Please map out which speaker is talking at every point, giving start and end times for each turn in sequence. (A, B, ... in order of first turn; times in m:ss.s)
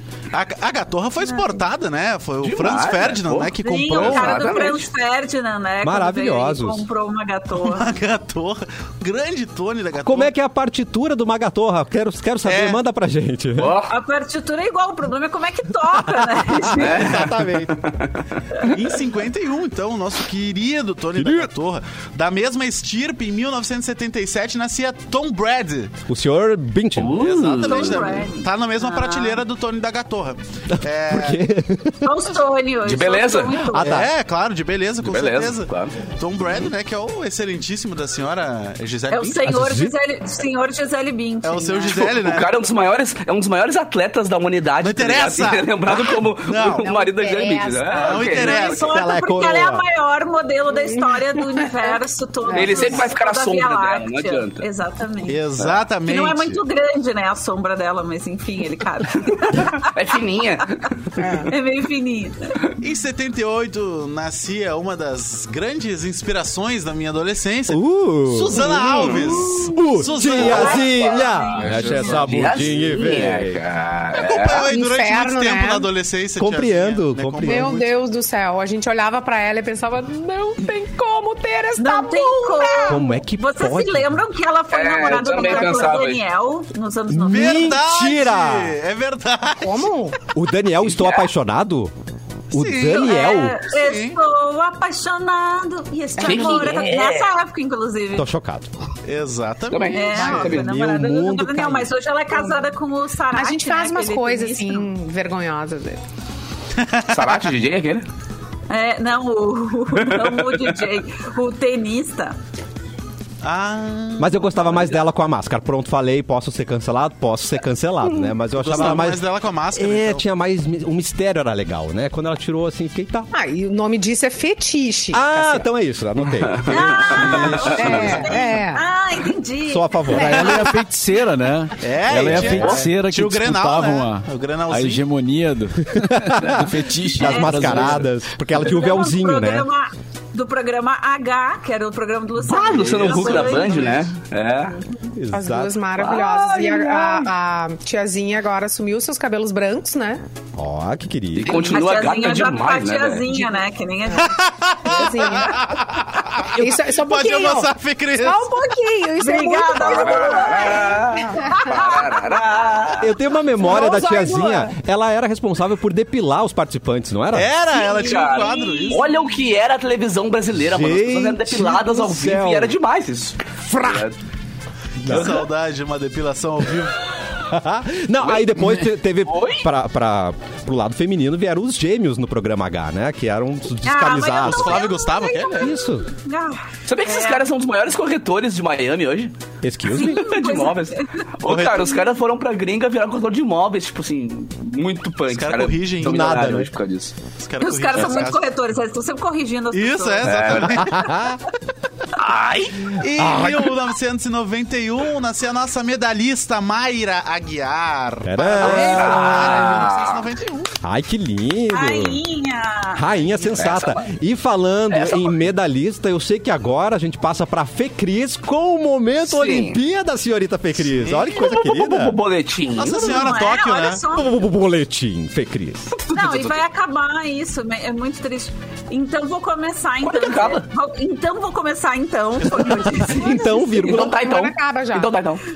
0:00.3-0:04.4 A
0:01.3-0:01.5 B
0:02.4-0:04.9 C
0:03.6-0:07.9 B
0:05.8-0:06.9 D
0:07.6-0:10.3 A
0:10.0-0:13.7 D
0:12.4-0:12.8 A
0:13.6-0:13.9 C
0:13.9-0:17.2 B
0:16.0-0:17.8 D
0:16.8-0:18.7 C
0:18.6-0:25.9 A
0:21.2-0:21.5 D
0:26.1-0:27.2 D
0:27.0-0:28.1 C
0:27.1-0:31.4 A
0:27.6-0:29.4 B
0:31.1-0:32.1 D
0:32.0-0:34.0 B
0:32.8-0:33.6 C
0:33.7-0:34.1 D
0:33.8-0:39.4 A
0:35.0-0:35.9 C
0:39.1-0:42.0 B
0:39.4-0:39.9 D
0:41.4-0:42.5 A
0:41.9-0:48.6 C
0:44.8-0:46.9 A
0:46.6-0:48.3 E
0:48.0-0:48.9 A
0:48.3-0:55.4 B
0:48.8-0:49.8 D
0:50.7-0:51.7 E
0:52.4-0:53.0 E
0:52.5-0:54.6 C
0:55.2-0:56.6 A
0:56.0-0:59.9 B
0:59.5-1:01.2 C
1:01.2-1:01.5 E
1:01.2-1:02.6 B
1:02.8-1:12.2 A
1:07.7-1:09.1 D
1:08.8-1:09.6 C
1:09.7-1:13.6 D
1:10.3-1:12.1 B
1:11.4-1:14.7 C
1:11.7-1:12.4 F
1:14.1-1:17.8 A
1:14.7-1:15.9 E
1:16.4-1:17.8 D
1:17.4-1:23.0 E
1:21.8-1:27.7 B
1:22.8-1:24.2 D
1:24.7-1:26.2 C
1:27.1-1:28.8 D
1:27.3-1:29.9 A
1:29.6-1:30.2 E
1:30.3-1:31.9 D
1:30.9-1:31.2 C
1:32.5-1:33.6 D
1:32.5-1:33.1 A
1:32.9-1:38.3 B
1:33.6-1:34.2 A
1:36.2-1:36.7 E
1:36.2-1:37.3 C
1:38.1-1:38.7 D
1:39.0-1:40.4 A
1:39.7-1:40.7 C
1:39.9-1:44.9 B
1:40.2-1:40.6 E
1:40.2-1:41.9 D
1:42.3-1:42.7 E
1:43.3-1:46.0 E
1:46.8-1:47.5 A
1:47.1-1:48.1 C
1:48.7-1:52.4 B
1:50.0-1:50.8 C
1:53.4-1:54.9 A
1:54.2-1:59.2 D
1:58.6-2:00.2 A
1:59.7-2:03.3 D
2:03.3-2:05.7 E
2:05.1-2:08.4 D
2:06.3-2:08.2 C
2:06.7-2:10.0 B
2:07.7-2:08.8 E
2:09.7-2:10.8 D
2:10.1-2:18.1 F
2:10.1-2:10.5 E
2:11.8-2:15.0 A
2:12.3-2:12.8 C
2:12.4-2:12.8 D
2:15.9-2:19.7 D
2:16.6-2:17.1 C
2:17.2-2:17.7 B
2:18.5-2:24.1 B
2:22.4-2:24.8 C
2:22.8-2:24.0 A
2:25.1-2:26.2 D
2:25.3-2:30.2 E
2:26.0-2:27.2 C
2:30.6-2:31.7 D
2:31.4-2:33.3 C
2:31.5-2:35.5 B
2:33.3-2:33.6 E
2:34.1-2:38.5 A
2:34.8-2:35.7 E
2:36.4-2:41.9 E
2:39.2-2:42.4 B
2:39.7-2:43.1 C
2:43.0-2:47.5 D
2:43.6-2:44.7 E
2:47.3-2:49.1 A
2:47.7-2:49.2 B
2:48.0-2:54.2 C
2:50.7-2:52.7 D
2:53.6-2:54.0 D
2:55.0-2:55.4 D
2:55.1-2:57.0 A
2:55.1-2:55.4 C
2:57.5-3:04.7 D
2:58.2-2:59.6 C
3:03.8-3:07.4 B
3:04.4-3:05.7 A
3:05.6-3:06.0 D
3:06.8-3:09.3 C
3:09.6-3:10.2 D
3:09.9-3:11.3 B
3:09.9-3:17.2 C
3:11.4-3:11.9 A
3:15.3-3:16.3 A
3:16.0-3:16.7 D
3:17.3-3:18.4 A
3:17.6-3:20.3 B
3:19.7-3:21.0 A
3:20.2-3:20.8 C
3:20.7-3:21.4 D
3:22.2-3:23.0 C
3:23.0-3:30.8 A
3:23.2-3:23.7 D
3:28.2-3:29.9 D
3:28.6-3:30.3 C
3:30.8-3:32.2 D
3:31.7-3:33.0 B
3:32.9-3:42.2 D
3:33.5-3:34.0 C
3:34.9-3:35.4 C
3:39.3-3:39.8 C
3:40.9-3:41.4 A
3:41.3-3:43.3 C
3:42.8-3:44.0 A
3:42.9-3:44.4 B
3:44.1-3:45.9 D
3:46.0-3:46.6 C
3:46.1-3:53.8 B
3:50.0-3:50.7 C
3:52.8-3:54.1 D
3:53.1-3:55.1 E
3:53.8-3:55.4 C